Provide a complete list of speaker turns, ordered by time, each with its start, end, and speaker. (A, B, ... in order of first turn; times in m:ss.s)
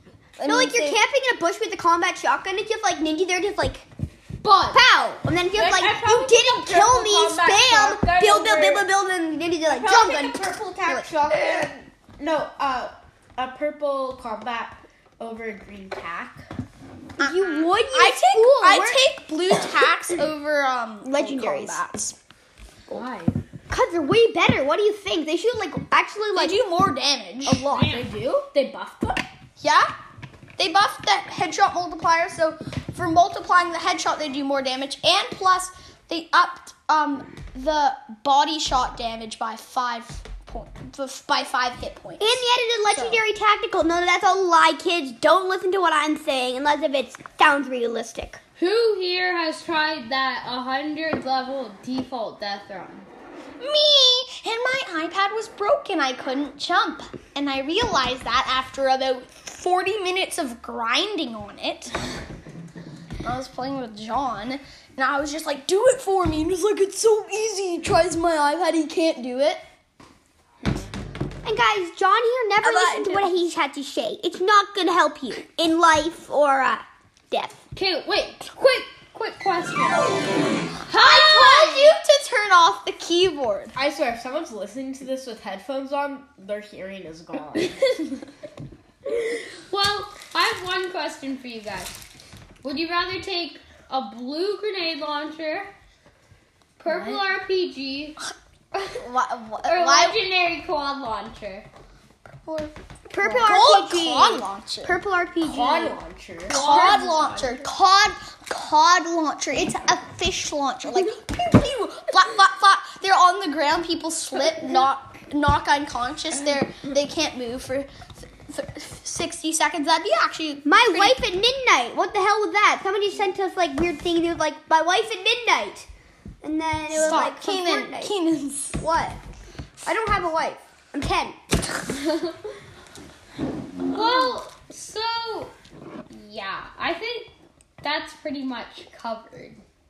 0:00.4-0:01.0 A
0:00.4-0:03.9 B
0:04.4-0:04.8 C
0:04.7-0:10.0 B
0:05.5-0:08.9 C
0:09.7-0:16.4 C
0:09.8-0:10.4 A
0:10.8-0:11.1 B
0:17.2-0:19.0 B
0:17.2-0:22.2 A
0:21.0-0:21.9 B
0:22.9-0:23.4 C
0:23.7-0:26.6 B
0:26.4-0:27.7 A
0:27.4-0:28.0 B
0:27.7-0:29.2 C
0:29.6-0:29.9 A
0:30.6-0:42.4 A
0:42.2-0:48.4 B
0:48.6-0:53.1 D
0:53.6-1:01.9 A
1:03.2-1:09.6 A
1:11.4-1:17.6 B
1:12.6-1:13.2 A
1:17.7-1:20.3 D
1:20.8-1:22.0 D
1:20.9-1:23.7 A
1:23.8-1:27.8 C
1:29.7-1:32.0 D
1:32.6-1:35.7 D
1:36.8-1:38.2 D
1:36.9-1:37.2 A
1:38.9-1:40.2 A
1:39.6-1:41.7 D
1:42.4-1:45.0 A
1:43.1-1:46.0 B
1:45.4-1:47.6 C
1:46.5-2:01.2 A
1:46.5-1:47.3 D
1:46.6-1:47.0 B
2:00.6-2:05.9 B
2:06.4-2:08.1 B
2:06.9-2:08.9 A
2:08.8-2:09.2 B
2:09.8-2:11.8 B
2:13.9-2:15.5 D
2:16.1-2:19.6 D